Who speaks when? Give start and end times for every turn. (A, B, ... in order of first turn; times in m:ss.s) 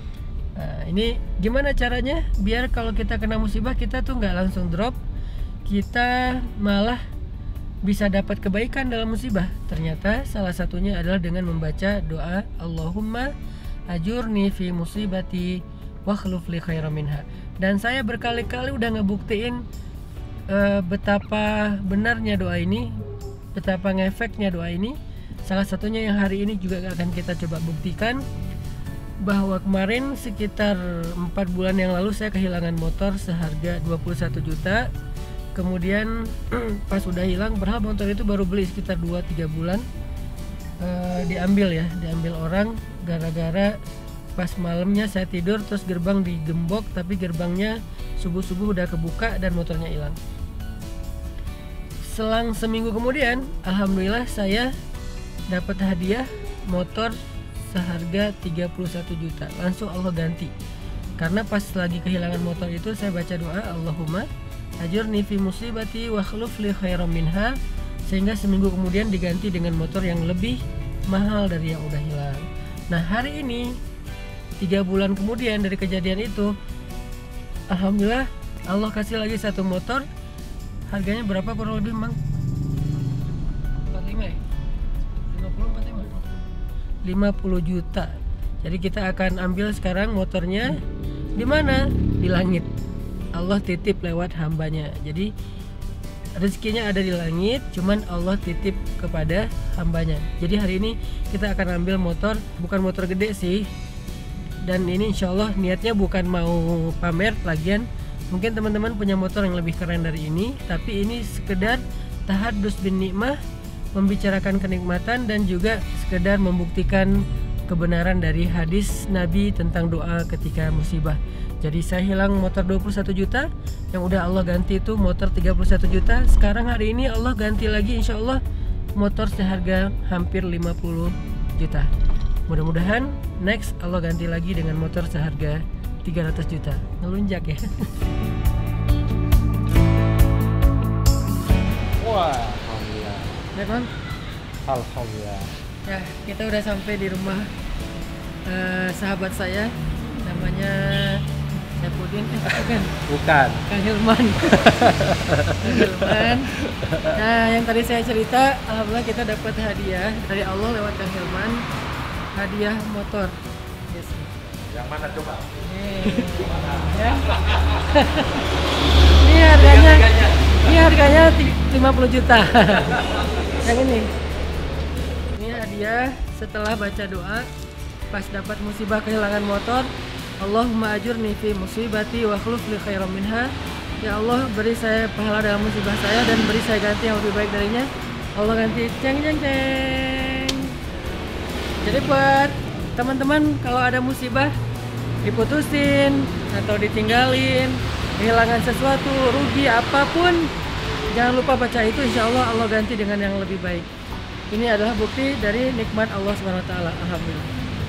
0:00.6-0:05.0 A
0:05.7-0:07.0 A
0:07.8-0:13.3 A
0:13.9-0:19.6 A
0:20.5-0:23.0 A
0:23.6-0:28.2 A
0:29.2-0:34.9 A
0:35.6-0:39.8 A
0:40.8-0:43.8 A
0:44.4-0:50.2 A
0:52.0-0:54.7 A
0:55.5-1:00.5 A
1:01.2-1:04.3 A
1:04.8-1:13.8 A
1:14.6-1:16.5 A
1:17.7-1:20.1 A
1:20.9-1:22.2 A
1:23.9-1:24.4 A
1:25.3-1:26.3 A
1:27.0-1:30.8 A
1:31.4-1:32.7 A
1:33.4-1:35.3 A
1:36.4-1:43.7 A
1:44.6-1:53.4 A
1:54.0-2:08.4 A
2:09.0-2:11.9 A
2:12.5-2:17.8 A
2:22.0-2:23.4 B
2:23.5-2:23.9 A
2:24.7-2:25.5 B
2:25.8-2:27.5 A
2:28.5-2:33.0 A
2:33.1-2:33.6 B
2:33.6-2:35.0 A
2:34.6-2:37.2 B
2:35.5-2:41.6 A
2:42.4-2:43.4 A
2:43.9-2:44.3 A
2:44.6-2:47.7 B
2:45.6-2:48.5 A
2:49.1-2:54.1 A
2:49.5-2:50.9 B
2:53.0-2:53.5 B
2:55.3-2:57.5 A
2:58.1-3:10.8 A
3:11.8-3:14.5 A
3:15.2-3:20.5 A
3:21.1-3:23.9 A
3:24.5-3:27.5 A